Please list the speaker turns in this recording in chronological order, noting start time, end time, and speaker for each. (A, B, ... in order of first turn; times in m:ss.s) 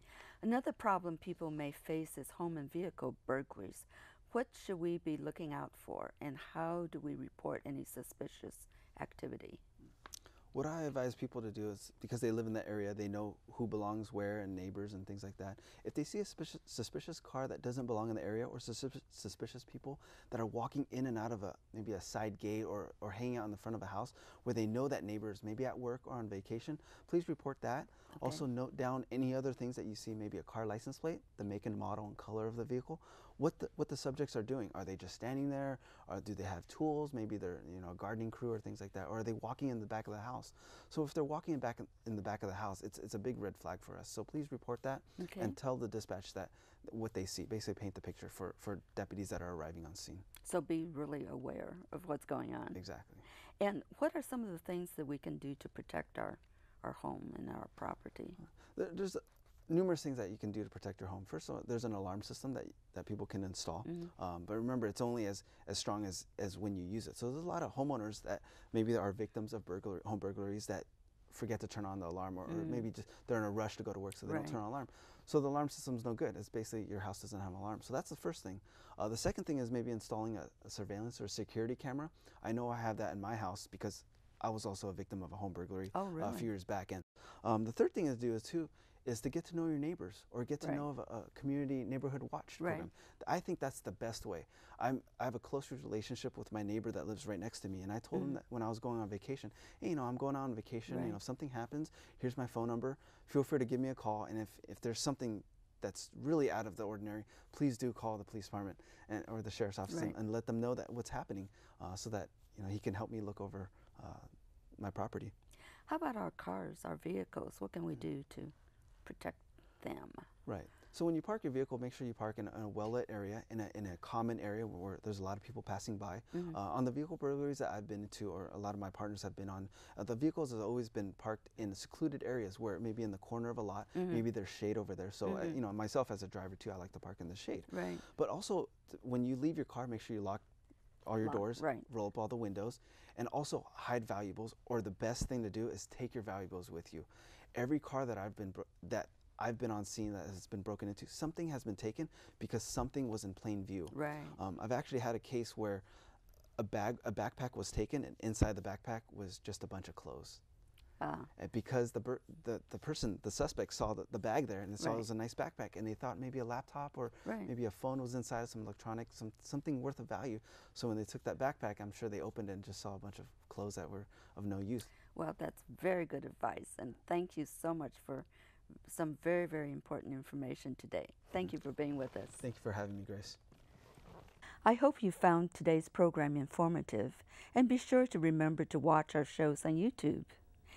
0:00.4-0:09.6 A
0:10.5-0:50.2 B
0:28.2-0:28.4 A
0:45.2-0:45.6 A
0:50.4-0:52.8 A
0:52.7-0:53.2 B
0:53.6-0:58.4 A
0:58.7-1:55.3 B
1:03.9-1:04.1 A
1:12.5-1:12.8 A
1:14.2-1:14.6 A
1:25.9-1:26.5 A
1:32.6-1:32.9 A
1:40.9-1:41.2 A
1:55.9-1:58.5 A
1:59.0-2:00.2 A
2:00.4-2:20.4 B
2:06.3-2:06.6 A
2:13.9-2:14.2 A
2:15.3-2:15.6 A
2:17.7-2:18.0 A
2:21.0-2:35.8 B
2:21.2-2:21.9 A
2:33.9-2:34.4 A
2:36.6-2:40.4 B
2:41.0-2:41.3 A
2:41.4-2:54.9 B
2:44.8-2:45.0 A
2:47.2-2:47.5 A
2:55.1-2:58.3 A
2:58.9-3:02.4 A
3:02.4-3:03.4 B
3:04.6-3:10.3 A